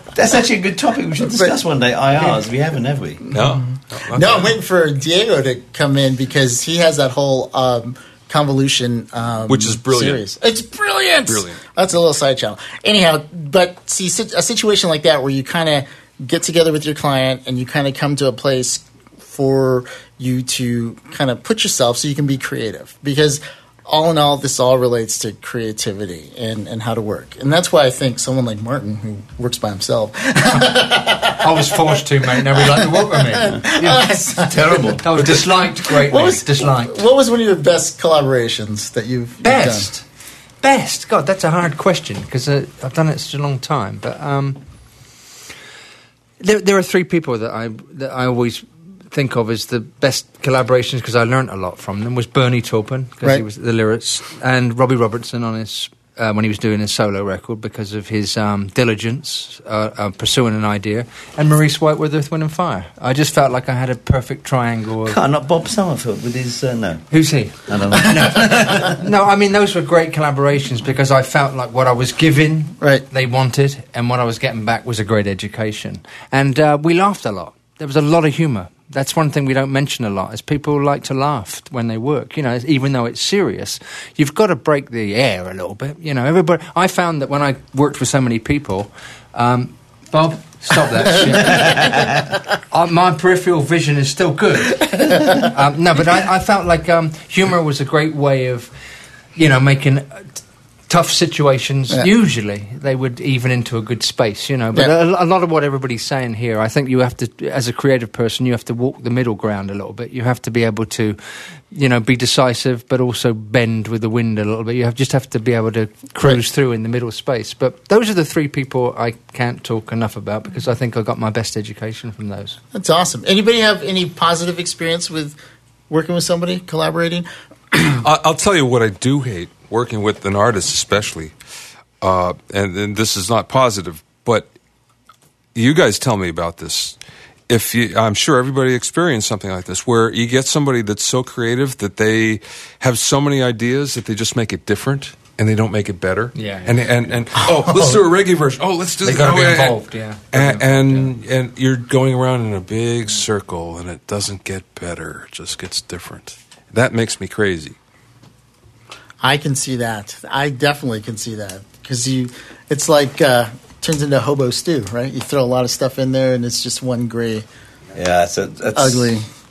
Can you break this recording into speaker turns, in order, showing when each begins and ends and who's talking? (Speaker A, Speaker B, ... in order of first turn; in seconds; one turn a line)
Speaker A: 0.1-3.3
Speaker B: 1.2-1.5
Speaker C: 3.3-4.5
Speaker B: 3.3-35.0
Speaker C: 9.5-10.2
Speaker C: 11.3-11.6
Speaker D: 31.4-34.0
Speaker A: 34.5-35.0
Speaker D: 35.0-37.0
Speaker B: 35.8-39.9
Speaker D: 39.4-40.0
Speaker D: 40.6-44.6
Speaker D: 46.4-65.2
Speaker A: 65.0-67.1
Speaker D: 67.1-92.1
Speaker A: 67.7-69.0
Speaker B: 72.8-73.0
Speaker A: 91.5-92.1
Speaker D: 92.7-98.7
Speaker B: 94.8-95.3
Speaker D: 99.3-100.4
Speaker D: 100.9-111.2
Speaker D: 111.7-122.6
Speaker B: 122.7-125.4
Speaker B: 125.9-128.0
Speaker C: 128.0-131.3
Speaker C: 132.0-134.5
Speaker C: 135.5-137.0
Speaker C: 137.5-157.8
Speaker D: 146.3-146.9
Speaker B: 147.3-148.0
Speaker D: 149.0-151.1
Speaker B: 159.2-167.4
Speaker A: 167.9-169.1
Speaker B: 168.7-169.3